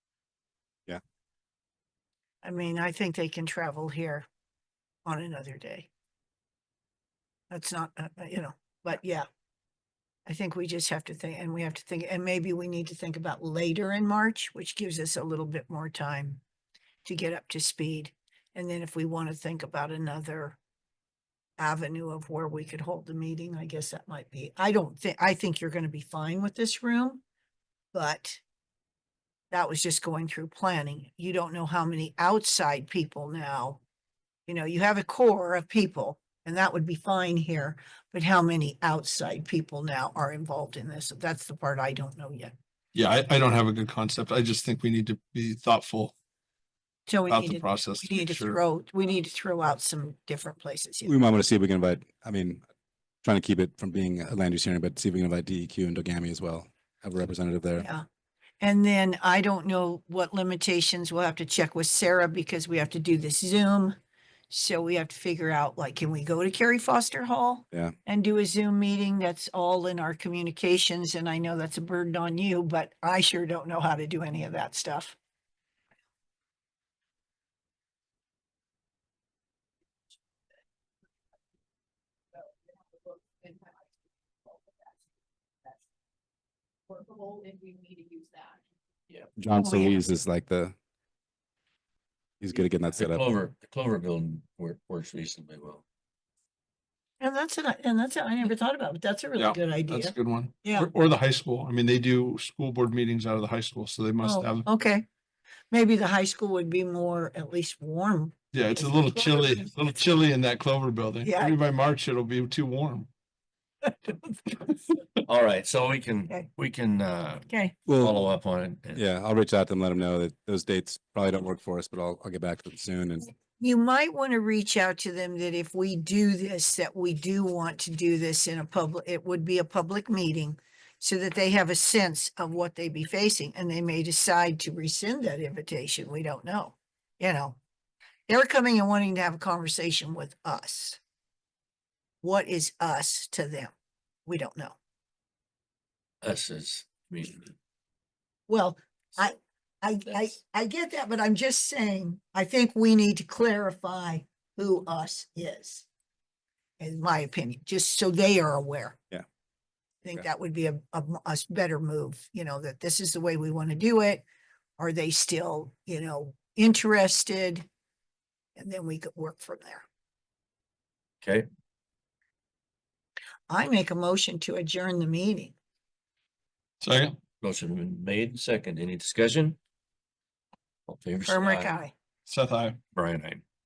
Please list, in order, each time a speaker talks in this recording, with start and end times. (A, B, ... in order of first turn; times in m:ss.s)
0:02.4-0:04.2 A
0:05.0-0:05.9 A
0:07.5-0:09.3 A
0:10.2-0:16.4 A
0:17.0-0:20.6 A
0:21.6-0:27.2 A
0:27.9-0:28.4 A
0:29.5-0:33.8 A
0:34.5-0:42.5 A
0:42.9-0:46.1 B
0:47.1-0:51.2 A
0:47.3-0:48.6 B
0:51.0-0:52.6 C
0:53.2-0:57.9 C
0:57.8-0:58.0 A
0:58.6-1:04.0 A
1:04.5-1:15.2 A
1:22.4-1:23.9 D
1:24.4-1:24.9 D
1:26.9-1:28.6 D
1:29.4-1:30.7 C
1:29.6-1:30.0 A
1:32.4-1:33.2 C
1:32.9-1:35.8 E
1:37.2-1:40.9 A
1:39.4-1:44.6 B
1:44.2-1:45.0 A
1:45.7-1:49.6 A
1:48.5-1:53.1 B
1:51.2-1:51.6 A
1:55.2-1:59.0 E
1:57.5-1:57.8 A
1:57.9-1:58.3 C
1:58.9-2:03.3 C
2:03.6-2:17.6 A
2:18.3-2:21.0 A
2:22.2-2:23.7 A
2:24.2-2:24.8 A
2:26.2-2:27.5 E
2:28.5-2:35.8 A
2:36.8-2:39.1 A
2:40.0-2:44.2 A
2:44.8-2:47.6 A
2:48.6-2:49.8 A
2:53.5-2:55.5 A
2:56.8-2:57.2 B
2:57.4-2:59.6 E
3:00.9-3:01.7 E
3:01.2-3:01.9 A
3:02.2-3:02.8 B
3:02.9-3:03.4 E